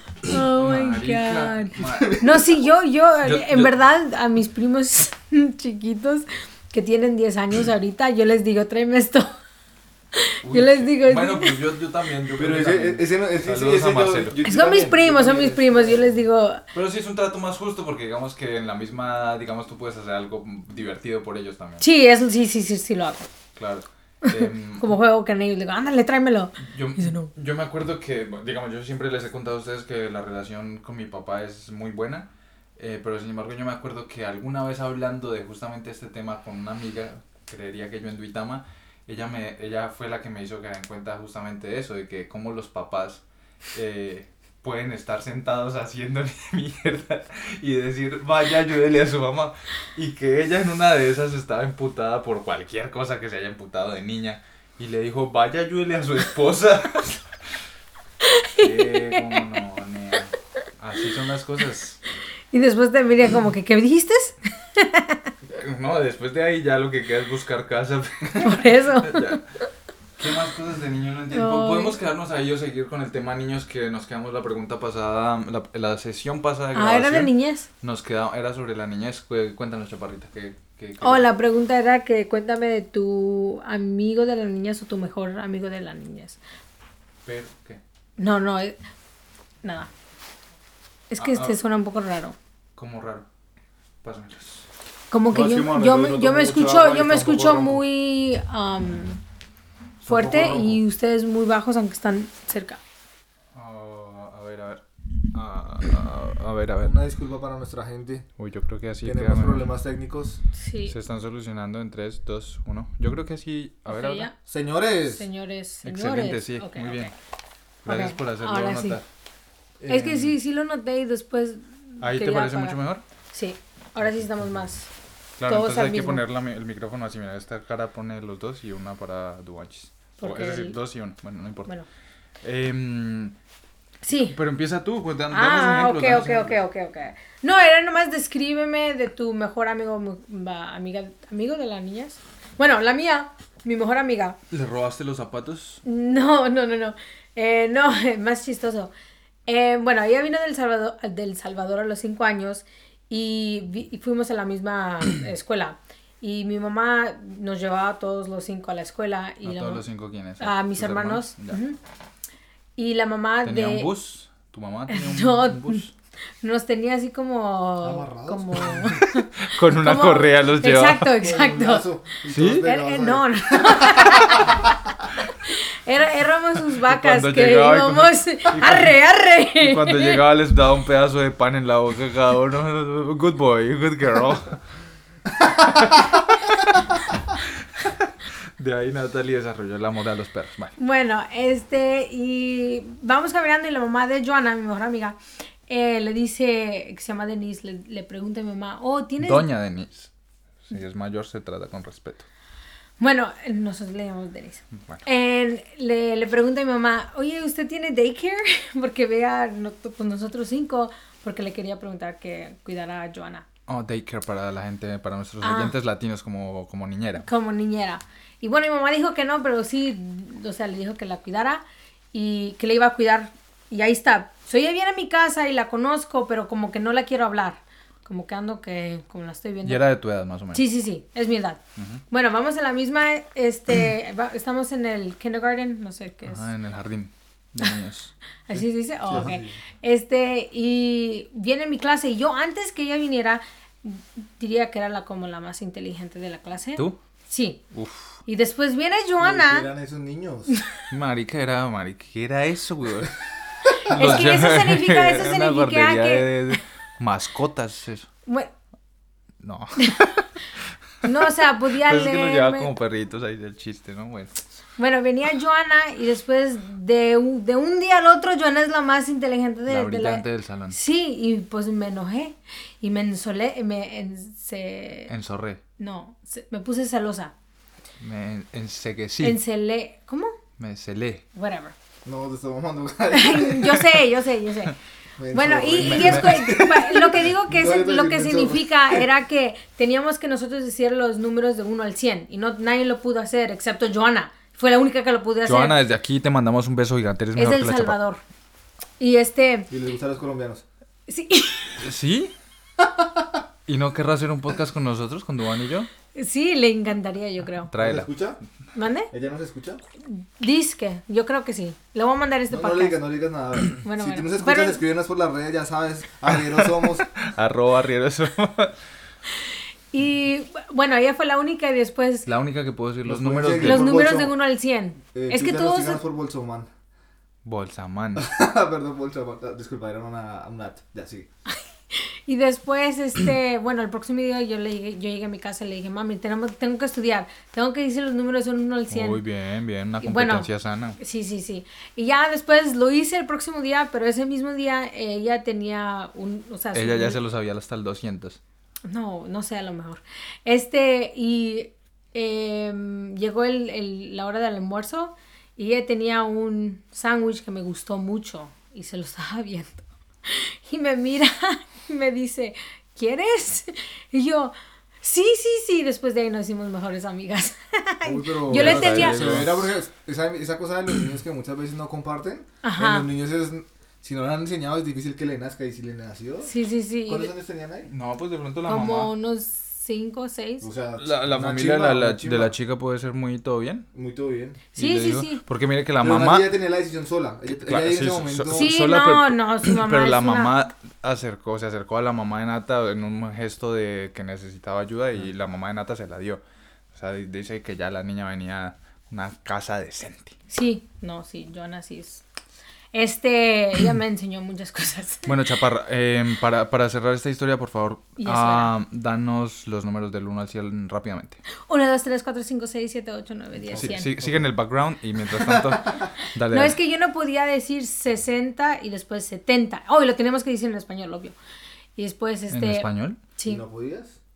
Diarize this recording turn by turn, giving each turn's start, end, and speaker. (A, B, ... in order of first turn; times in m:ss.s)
0:00.2-0:09.3 A
0:00.3-0:02.2 B
0:01.9-0:02.6 C
0:03.2-0:03.7 B
0:10.2-0:11.6 A
0:10.4-0:14.4 B
0:12.4-0:16.2 C
0:14.4-0:16.6 A
0:16.7-0:21.9 B
0:21.8-0:23.3 A
0:23.6-0:24.9 B
0:24.2-0:27.3 A
0:26.6-0:43.2 B
0:43.7-0:57.2 B
0:58.2-0:59.4 A
0:58.6-1:02.0 B
1:02.5-1:05.2 A
1:05.5-1:09.4 B
1:08.4-1:09.4 A
1:10.2-1:21.3 B
1:11.3-1:12.0 A
1:16.7-1:17.7 A
1:21.0-1:26.4 A
1:27.2-1:27.8 B
1:28.2-1:28.8 A
1:29.6-1:29.9 A
1:31.1-1:32.4 A
1:31.2-1:31.6 B
1:32.8-1:33.3 B
1:34.0-1:34.7 B
1:35.1-1:39.2 A
1:35.3-1:37.8 C
1:40.0-1:40.8 C
1:40.0-1:42.8 A
1:43.5-1:47.0 B
1:46.8-1:48.3 C
1:48.4-1:49.7 B
1:49.0-1:50.4 C
1:50.6-1:51.0 A
1:50.9-1:54.3 B
1:53.9-1:54.4 A
1:54.5-1:55.2 C
1:55.1-1:57.1 A
1:55.8-1:57.1 B
1:57.8-1:59.0 B
1:57.9-1:59.0 A
1:59.9-2:02.8 A
1:59.9-2:00.4 B
2:02.0-2:03.0 B
2:03.3-2:04.9 A
2:05.4-2:11.7 B
2:05.5-2:06.2 A
2:10.2-2:10.8 A
2:12.4-2:13.4 B
2:14.0-2:14.4 A
2:14.3-2:16.6 B
2:15.3-2:24.4 A
2:24.5-2:25.8 B
2:25.8-2:28.9 A
2:29.5-2:39.8 A
2:39.4-2:41.6 B
2:40.4-2:41.8 A
2:42.8-2:43.9 A
2:43.4-2:45.9 B
2:44.9-2:45.8 A
2:46.4-2:51.9 A
2:47.8-2:49.0 C
2:49.0-2:51.1 B
2:51.2-2:54.7 C
2:52.3-2:52.7 B
2:52.6-2:54.7 A
2:55.4-3:00.2 A
2:56.9-2:59.0 B
2:59.6-3:04.6 B
3:05.5-3:10.8 B
3:10.8-3:15.2 A
3:15.7-3:19.5 A
3:19.2-3:20.1 B
3:20.7-3:22.3 B
3:23.0-3:33.5 A
3:24.7-3:25.0 B
3:33.7-3:37.3 B
3:35.4-3:35.8 A
3:37.2-3:49.9 A
3:49.6-3:50.6 B
3:50.5-3:56.5 A
3:56.2-3:58.6 B
3:58.5-4:07.6 A
3:59.1-3:59.5 C
4:07.7-4:08.1 B
4:08.3-4:09.7 A
4:09.2-4:10.5 C
4:10.9-4:13.2 B
4:13.8-4:16.6 A
4:13.8-4:18.1 B
4:18.3-4:18.5 A
4:19.4-4:20.3 B
4:19.8-4:20.0 A
4:21.0-4:22.7 A
4:21.8-4:24.4 B
4:24.8-4:35.1 A
4:29.7-4:30.8 B
4:35.1-4:35.6 B
4:35.8-4:37.3 A
4:38.0-4:39.4 B
4:39.2-4:40.4 A
4:40.6-4:41.2 B
4:41.4-4:41.7 A
4:42.0-4:43.9 C
4:43.1-4:44.8 A
4:45.2-4:49.1 C
4:45.3-4:55.8 A
4:45.8-4:46.5 B
4:55.4-4:58.0 B
4:57.4-4:58.2 A
4:59.0-4:59.7 A
4:59.7-5:00.6 C
5:01.1-5:01.8 A
5:01.8-5:02.4 B
5:03.7-5:05.9 B
5:06.1-5:07.7 A
5:07.7-5:08.1 B
5:07.8-5:08.4 C
5:08.8-5:09.1 A
5:09.1-5:09.8 C
5:10.1-5:13.0 A
5:12.5-5:17.1 C
5:13.8-5:14.8 A
5:16.6-5:18.8 B
5:19.9-5:22.3 A
5:22.3-5:24.0 B
5:23.1-5:24.3 C
5:23.6-5:26.0 A
5:25.1-5:26.7 C
5:27.4-5:28.3 B
5:28.2-5:31.3 C
5:31.9-5:39.2 A
5:38.9-5:41.0 B
5:40.0-5:47.2 A
5:46.7-5:48.4 B
5:48.9-6:09.4 A
6:08.0-6:16.5 C
6:08.5-6:09.7 B
6:12.6-6:13.1 A
6:16.5-6:17.3 A
6:17.1-6:17.9 C
6:17.9-6:19.1 B
6:18.7-6:20.7 A
6:20.6-6:22.5 C
6:21.0-6:23.9 B
6:23.9-6:24.6 C
6:24.8-6:25.4 A
6:24.8-6:26.5 B
6:26.0-6:28.7 C
6:27.5-6:36.4 B
6:28.5-6:30.6 A
6:36.9-6:40.4 B
6:40.5-6:42.2 A
6:42.9-6:45.4 A
6:45.3-6:51.4 B
6:48.2-6:48.7 A
6:51.7-6:54.1 A
6:53.6-6:54.5 C
6:53.7-6:56.8 B
6:55.4-6:56.1 C
6:56.5-7:01.4 A
7:02.0-7:03.6 A
7:02.5-7:03.2 B
7:03.5-7:04.2 C